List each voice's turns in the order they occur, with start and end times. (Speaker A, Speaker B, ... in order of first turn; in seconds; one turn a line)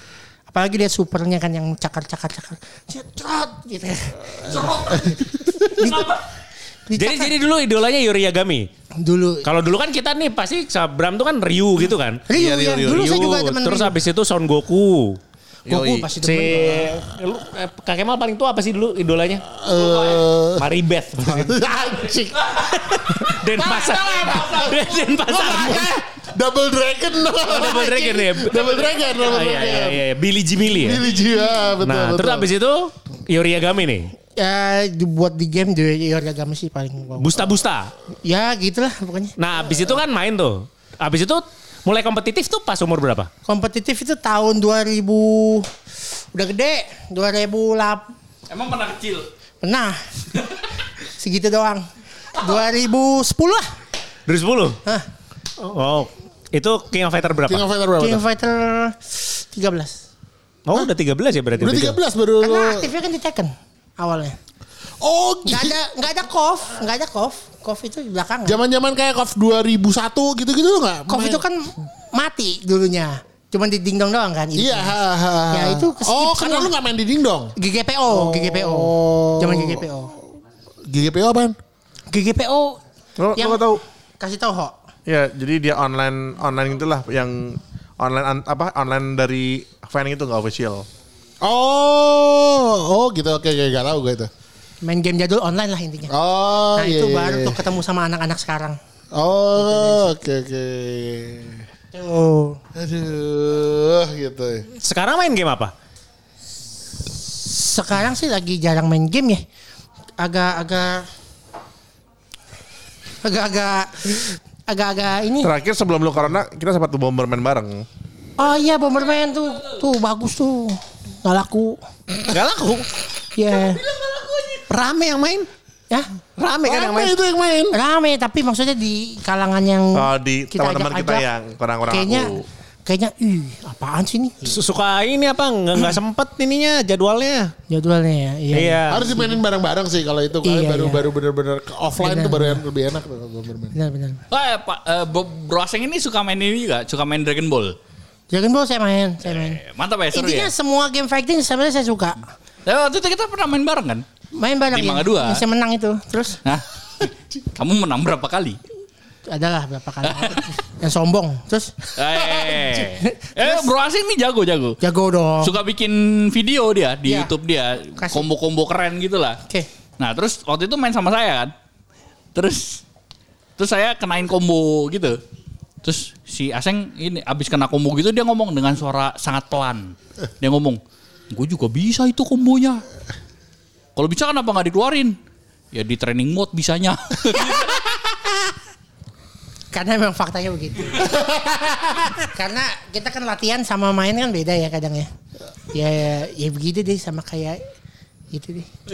Speaker A: 0.5-5.2
Speaker B: 4.5-6.2
Speaker A: 5.8-6.1
Speaker A: 6.9-7.3
Speaker C: 7.0-8.7
Speaker A: 9.0-9.4
Speaker C: 9.4-12.2
Speaker A: 12.3-13.9
Speaker D: 12.3-13.4
Speaker C: 12.8-15.2
Speaker A: 15.7-16.9
Speaker D: 15.7-16.1
Speaker C: 16.1-19.4
Speaker E: 19.6-20.6
Speaker B: 19.6-20.3
Speaker C: 20.6-21.6
Speaker E: 21.2-22.5
Speaker B: 22.3-25.1
Speaker C: 22.6-25.9
Speaker E: 23.4-30.0
Speaker C: 27.4-31.0
Speaker B: 28.6-29.1
Speaker E: 30.8-32.5
Speaker C: 31.8-34.1
Speaker A: 34.4-37.6
Speaker C: 37.2-37.9
Speaker A: 38.2-39.3
Speaker C: 39.4-43.3
Speaker A: 43.5-45.7
Speaker A: 46.3-48.1
Speaker B: 48.5-49.3
Speaker A: 49.6-50.0
Speaker A: 51.0-53.7
Speaker C: 54.3-54.8
Speaker C: 55.6-57.6
Speaker E: 57.5-58.2
Speaker A: 58.0-60.0
Speaker C: 60.7-62.0
Speaker E: 61.6-62.9
Speaker A: 62.4-64.4
Speaker E: 65.0-65.8
Speaker A: 65.4-68.6
Speaker E: 68.4-71.4
Speaker A: 71.1-75.0
Speaker E: 74.5-77.5
Speaker A: 75.5-76.7
Speaker A: 77.5-80.1
Speaker E: 78.1-79.8
Speaker E: 80.9-81.5
Speaker A: 82.1-82.8
Speaker D: 83.2-83.8
Speaker A: 83.3-84.8
Speaker D: 85.0-90.9
Speaker E: 91.4-94.3
Speaker A: 94.8-96.1
Speaker E: 96.1-97.6
Speaker A: 96.7-98.8
Speaker E: 99.1-101.6
Speaker A: 99.5-100.2
Speaker A: 101.9-102.6
Speaker E: 102.7-104.7
Speaker C: 104.8-105.7
Speaker A: 107.1-109.4
Speaker A: 110.2-111.1
Speaker A: 113.2-115.5
Speaker D: 115.4-117.8
Speaker A: 118.4-121.8
Speaker C: 122.3-122.9
Speaker A: 123.3-123.8
Speaker B: 123.5-124.7
Speaker C: 124.7-125.5
Speaker C: 126.4-127.1
Speaker E: 126.6-127.8
Speaker A: 126.7-127.1
Speaker A: 127.7-131.2
Speaker D: 129.9-132.4
Speaker A: 131.9-134.6
Speaker C: 134.4-137.5
Speaker A: 137.7-139.4
Speaker C: 138.5-139.2
Speaker E: 138.9-143.8
Speaker A: 140.4-141.0
Speaker A: 142.0-142.6
Speaker A: 143.8-144.2
Speaker B: 144.3-147.8
Speaker A: 148.3-149.6
Speaker B: 149.2-150.5
Speaker A: 150.1-152.2
Speaker B: 152.6-154.0
Speaker A: 154.3-156.4
Speaker B: 154.7-155.4
Speaker B: 156.4-158.6
Speaker A: 159.3-163.7
Speaker B: 161.9-164.8
Speaker A: 164.8-165.6
Speaker B: 165.4-169.4
Speaker A: 167.0-167.3
Speaker A: 168.0-168.2
Speaker B: 170.0-171.5
Speaker B: 172.3-172.8
Speaker B: 173.6-175.2
Speaker B: 175.8-180.8
Speaker B: 181.3-182.8
Speaker B: 183.9-185.2
Speaker B: 185.7-187.8
Speaker A: 189.7-191.2
Speaker E: 191.0-192.3
Speaker A: 192.3-195.1
Speaker A: 195.7-197.6
Speaker A: 198.3-198.7